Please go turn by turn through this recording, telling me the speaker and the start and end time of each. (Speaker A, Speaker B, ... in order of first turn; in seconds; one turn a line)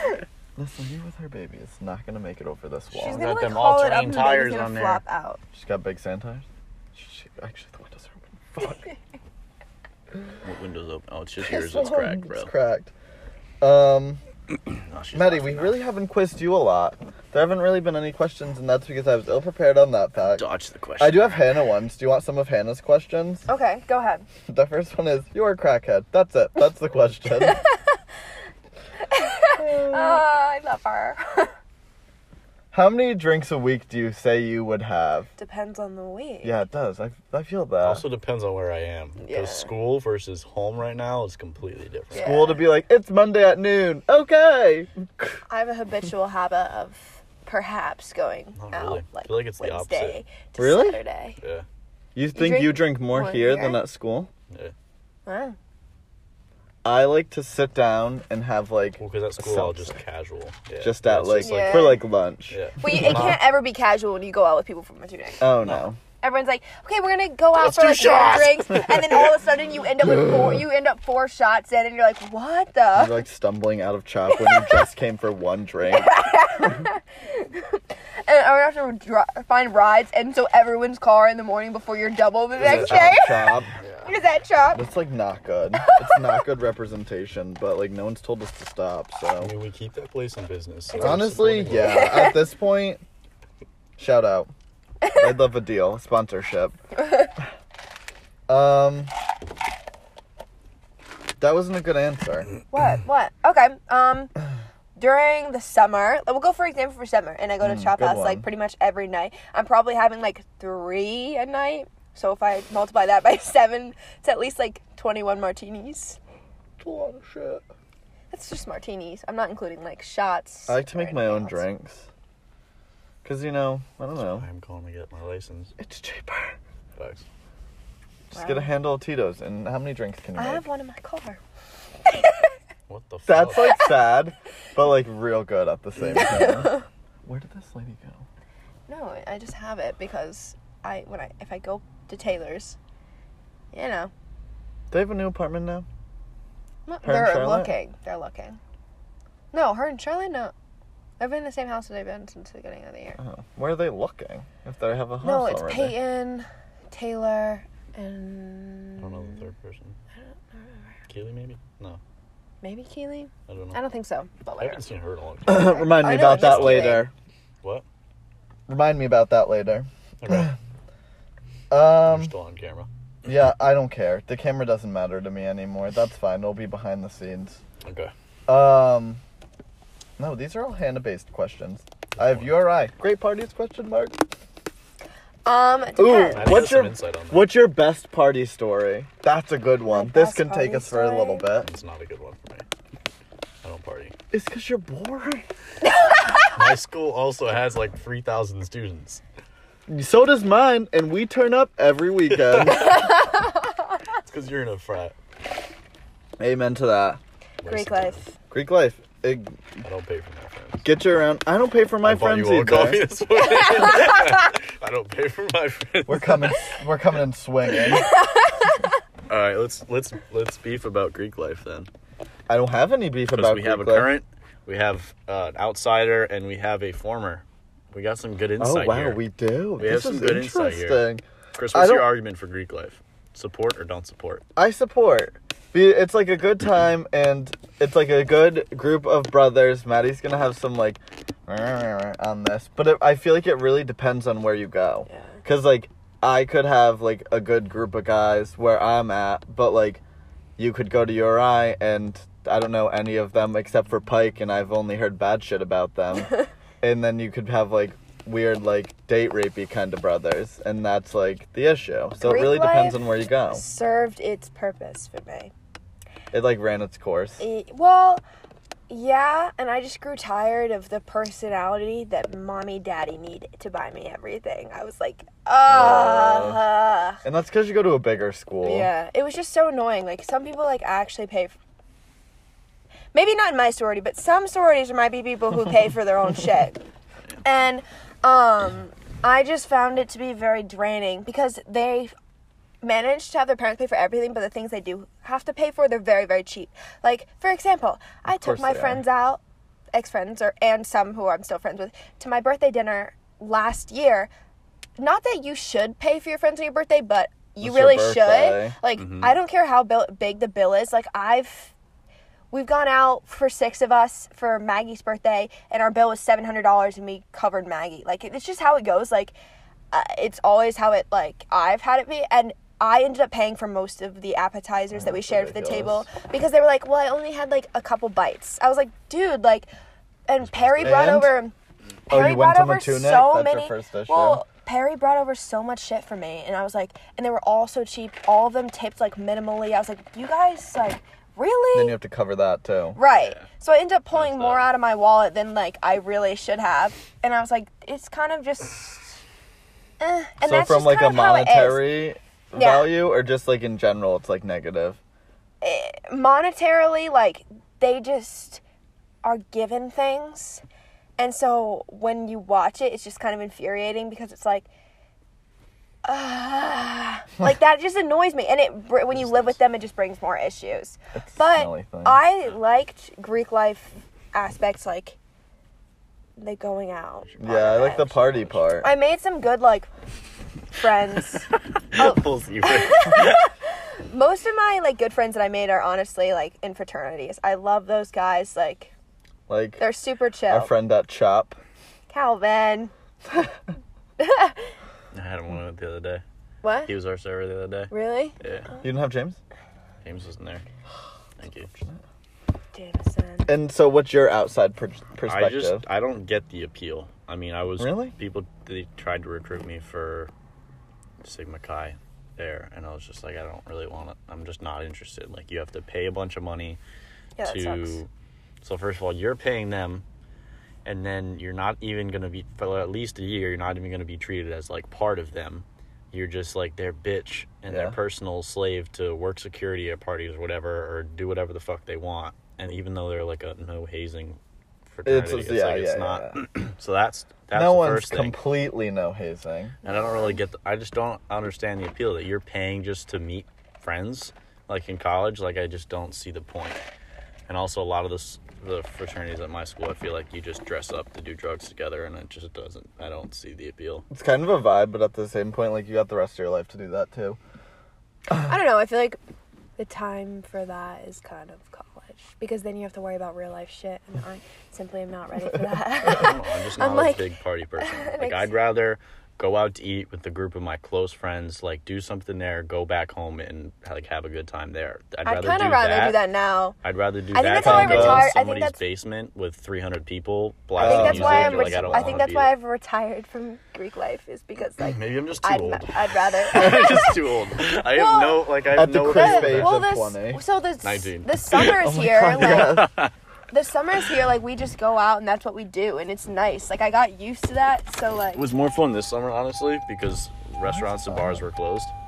Speaker A: 0.6-3.2
Speaker B: 3.0-5.0
Speaker C: 3.0-5.4
Speaker A: 5.5-8.8
Speaker B: 10.4-12.5
Speaker A: 11.4-12.9
Speaker A: 13.6-14.2
Speaker B: 14.6-15.8
Speaker A: 15.1-20.4
Speaker B: 20.3-21.4
Speaker A: 21.0-23.5
Speaker C: 23.5-24.2
Speaker A: 24.5-27.6
Speaker C: 29.1-31.5
Speaker A: 29.6-30.2
Speaker A: 32.7-35.3
Speaker C: 35.4-36.6
Speaker A: 36.4-38.0
Speaker B: 37.8-42.3
Speaker C: 39.2-39.7
Speaker C: 42.1-42.7
Speaker A: 42.1-45.4
Speaker C: 45.5-51.4
Speaker B: 48.5-50.2
Speaker A: 50.6-51.0
Speaker B: 51.4-51.6
Speaker A: 52.1-54.3
Speaker C: 52.3-53.8
Speaker C: 55.2-55.5
Speaker A: 56.8-60.0
Speaker B: 59.0-63.4
Speaker A: 60.8-63.4
Speaker C: 61.4-62.0
Speaker C: 62.8-65.5
Speaker A: 65.4-66.0
Speaker C: 66.2-73.2
Speaker B: 67.6-69.3
Speaker A: 70.0-70.6
Speaker A: 72.9-76.1
Speaker C: 74.3-74.8
Speaker C: 75.9-84.8
Speaker A: 82.6-83.7
Speaker B: 82.6-84.1
Speaker A: 84.8-89.5
Speaker C: 85.8-86.3
Speaker B: 89.4-92.3
Speaker A: 91.0-93.0
Speaker C: 91.0-92.4
Speaker A: 94.0-94.5
Speaker A: 95.1-96.8
Speaker A: 98.5-99.1
Speaker A: 101.4-102.5
Speaker C: 102.7-104.3
Speaker C: 105.0-116.2
Speaker A: 107.6-108.5
Speaker A: 116.8-117.6
Speaker C: 118.3-121.7
Speaker A: 120.7-122.1
Speaker A: 123.2-124.5
Speaker B: 124.2-125.7
Speaker A: 125.8-126.5
Speaker B: 127.0-127.2
Speaker A: 128.3-130.6
Speaker C: 128.3-128.7
Speaker C: 130.3-131.4
Speaker C: 132.1-132.3
Speaker B: 132.9-133.8
Speaker A: 133.3-138.2
Speaker C: 133.6-133.9
Speaker C: 136.2-136.8
Speaker C: 138.9-142.8
Speaker C: 143.7-144.1
Speaker A: 144.9-145.8
Speaker C: 146.9-148.6
Speaker A: 147.0-147.7
Speaker C: 149.5-150.5
Speaker C: 151.2-153.2
Speaker A: 153.2-156.0
Speaker C: 155.2-159.4
Speaker B: 159.0-160.0
Speaker C: 160.1-161.0
Speaker B: 161.1-162.0
Speaker C: 162.6-164.8
Speaker B: 163.5-163.8
Speaker B: 164.6-167.0
Speaker A: 165.5-167.1
Speaker C: 165.5-167.1
Speaker A: 168.7-170.5
Speaker B: 170.2-170.5
Speaker A: 171.7-172.3
Speaker B: 172.0-172.9
Speaker A: 173.2-177.6
Speaker B: 177.8-178.1
Speaker A: 178.5-179.2
Speaker A: 180.2-184.2
Speaker B: 182.2-182.5
Speaker C: 185.5-186.7
Speaker A: 186.0-191.7
Speaker B: 186.3-187.5
Speaker C: 189.9-191.5
Speaker B: 191.6-192.7
Speaker B: 193.6-194.1
Speaker A: 194.3-195.4
Speaker C: 195.8-196.6
Speaker B: 196.5-199.2
Speaker A: 199.9-203.1
Speaker B: 202.3-203.0
Speaker C: 202.9-203.3
Speaker B: 204.2-205.2
Speaker A: 206.4-207.2
Speaker B: 207.6-208.2
Speaker C: 207.6-208.2
Speaker A: 208.5-209.7
Speaker B: 209.8-210.8
Speaker A: 210.8-213.1
Speaker B: 212.0-216.7
Speaker A: 216.1-218.1
Speaker C: 217.8-218.9
Speaker B: 219.3-221.9
Speaker A: 222.5-224.1
Speaker B: 223.3-229.2
Speaker A: 228.6-232.1
Speaker B: 229.8-231.0
Speaker B: 231.5-234.4
Speaker A: 234.6-250.0
Speaker C: 245.1-245.4
Speaker A: 250.6-263.6
Speaker C: 262.2-265.5
Speaker A: 266.3-267.4
Speaker C: 267.4-268.2
Speaker C: 268.9-277.2
Speaker A: 275.7-276.6
Speaker A: 277.2-278.9
Speaker C: 278.6-281.6
Speaker C: 283.1-286.8
Speaker C: 287.4-292.1
Speaker C: 292.8-299.4
Speaker A: 298.3-299.0
Speaker C: 299.9-304.3
Speaker C: 305.0-311.7
Speaker A: 307.6-308.8
Speaker B: 308.9-309.3
Speaker C: 312.5-319.3
Speaker C: 319.9-329.7
Speaker A: 324.9-326.1
Speaker C: 330.3-331.5
Speaker B: 330.4-331.2
Speaker A: 330.8-331.3
Speaker A: 332.1-334.4
Speaker C: 332.1-342.0
Speaker A: 341.7-343.0
Speaker C: 343.0-349.2
Speaker B: 343.1-343.5
Speaker B: 344.1-344.7
Speaker C: 350.0-351.9
Speaker A: 350.4-355.0
Speaker C: 352.5-352.9
Speaker C: 355.6-358.6
Speaker C: 359.2-360.6
Speaker C: 361.2-364.7
Speaker C: 366.0-375.2
Speaker B: 369.1-369.6
Speaker A: 371.1-372.2
Speaker C: 376.4-378.2
Speaker B: 377.3-378.6
Speaker A: 377.4-378.9
Speaker C: 378.7-379.9
Speaker C: 380.7-388.9
Speaker B: 381.5-383.4
Speaker A: 389.5-389.8
Speaker C: 389.8-390.7
Speaker A: 390.5-391.6
Speaker C: 392.1-392.9
Speaker C: 394.2-394.7
Speaker B: 395.1-396.2
Speaker C: 396.6-396.9
Speaker B: 396.9-398.7
Speaker C: 397.9-398.8
Speaker A: 398.8-399.4
Speaker B: 400.0-400.7
Speaker B: 401.4-401.7
Speaker A: 401.7-402.0
Speaker C: 402.7-403.5
Speaker A: 403.5-405.8
Speaker B: 405.2-410.3
Speaker A: 407.8-408.1
Speaker B: 411.2-416.8
Speaker C: 417.4-418.0
Speaker B: 417.4-418.1
Speaker B: 418.6-420.0
Speaker B: 420.8-438.4
Speaker A: 427.7-428.0
Speaker A: 435.0-436.4
Speaker A: 437.5-439.8
Speaker B: 439.8-446.8
Speaker C: 439.8-440.3
Speaker B: 447.5-454.0
Speaker A: 454.1-457.4
Speaker C: 458.3-459.2
Speaker C: 459.8-467.2
Speaker B: 466.0-476.2
Speaker C: 467.8-468.5
Speaker C: 475.2-476.8
Speaker B: 476.8-482.5
Speaker C: 477.3-478.8
Speaker A: 477.6-478.3
Speaker A: 480.8-482.3
Speaker C: 480.8-488.5
Speaker B: 484.8-489.8
Speaker A: 488.7-490.4
Speaker C: 489.1-492.8
Speaker B: 490.8-491.8
Speaker A: 491.8-492.9
Speaker B: 492.3-493.1
Speaker C: 493.5-498.4
Speaker B: 498.4-501.9
Speaker A: 500.6-501.4